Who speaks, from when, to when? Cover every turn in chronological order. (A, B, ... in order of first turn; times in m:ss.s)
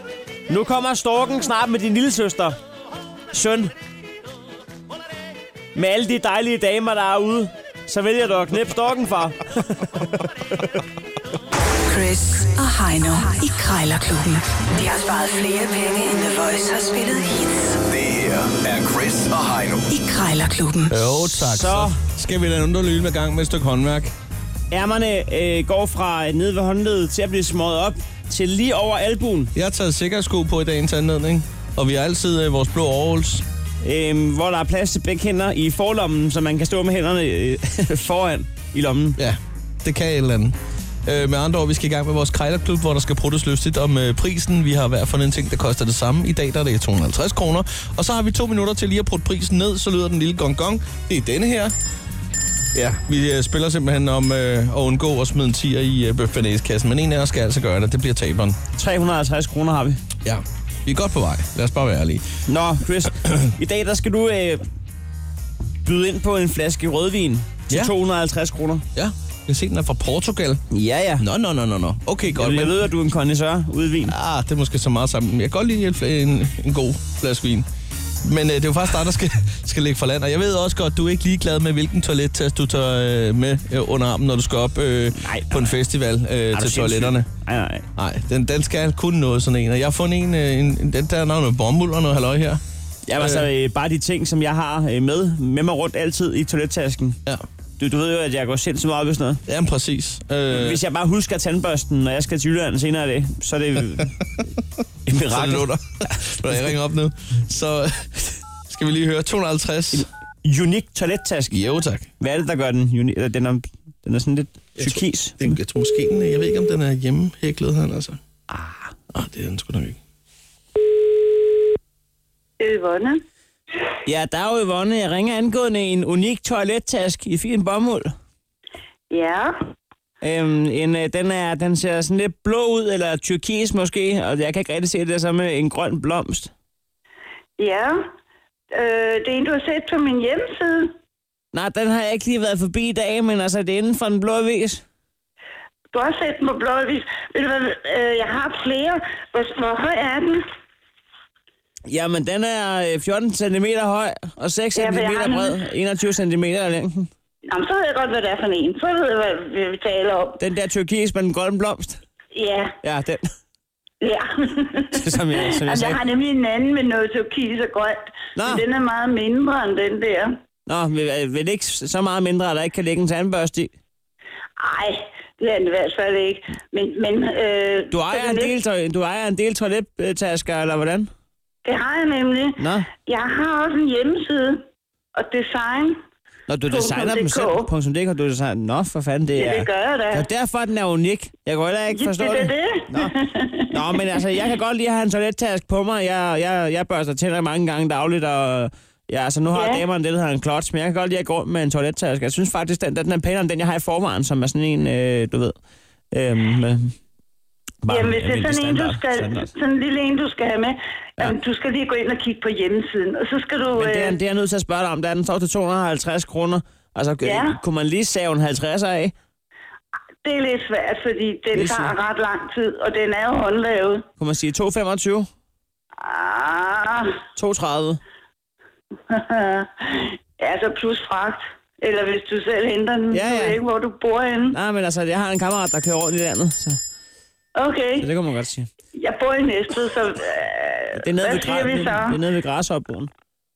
0:00.5-0:02.6 A
0:03.3-0:03.7 A
0:05.8-0:10.6 A
0:11.9-0:17.8 B
0:17.8-0:19.9 C
0:19.9-0:21.2 B
0:20.9-0:24.1 D
0:21.4-0:22.0 A
0:24.7-0:29.5 A
0:29.5-0:33.4 D
0:33.8-0:39.2 A
0:39.2-0:51.7 D
0:52.7-0:58.6 D
0:58.7-1:00.0 A
1:00.2-1:02.3 D
1:02.5-1:04.6 A
1:03.0-1:03.5 D
1:05.8-1:08.9 A
1:09.0-1:10.6 D
1:10.7-1:11.3 A
1:11.2-1:12.8 D
1:12.3-1:14.2 A
1:14.1-1:17.7 D
1:18.2-1:27.3 D
1:25.2-1:25.8 A
1:26.5-1:27.9 A
1:28.0-1:32.6 D
1:33.1-1:37.2 A
1:33.2-1:33.5 D
1:37.8-1:39.4 A
1:39.5-1:40.8 D
1:40.5-1:44.2 A
1:45.1-1:46.2 A
1:45.3-1:50.1 D
1:49.9-1:51.6 A
1:51.5-1:52.1 D
1:52.2-1:55.4 A
1:54.8-1:58.2 D
1:58.5-1:58.9 A
1:59.1-2:00.0 D
2:02.6-2:03.2 E
2:04.1-2:08.1 A
2:09.1-2:09.7 E
2:10.2-2:16.5 A
2:17.6-2:18.1 E
2:18.7-2:21.0 E
2:21.5-2:24.8 A
2:25.9-2:30.5 E
2:31.9-2:37.1 A
2:34.8-2:35.6 E
2:37.5-2:40.4 E
2:40.4-2:42.0 A
2:42.3-2:42.8 E
2:42.8-2:43.3 A
2:44.0-2:50.4 E
2:44.9-2:46.0 A
2:48.4-2:48.6 A
2:50.7-2:53.7 A
2:54.6-2:58.5 E
2:57.9-3:01.1 A
3:01.6-3:06.0 E
3:02.6-3:02.9 A
3:06.5-3:13.1 A
3:06.7-3:07.7 E
3:09.4-3:10.3 E
3:11.9-3:14.1 E
3:13.7-3:25.6 A
3:19.5-3:19.8 E
3:26.1-3:27.0 A
3:27.8-3:29.5 A
3:27.9-3:34.2 E
3:33.8-3:39.1 A
3:37.2-3:37.6 E
3:40.2-3:44.1 E
3:41.6-3:42.0 A
3:44.2-3:45.3 A
3:46.0-3:47.2 E
3:47.4-3:48.0 A
3:49.1-3:54.6 E
3:53.1-3:53.6 A
3:54.5-3:56.8 A
3:57.6-3:58.1 E
3:58.0-3:58.7 A
3:59.0-4:02.2 E
4:01.0-4:03.1 A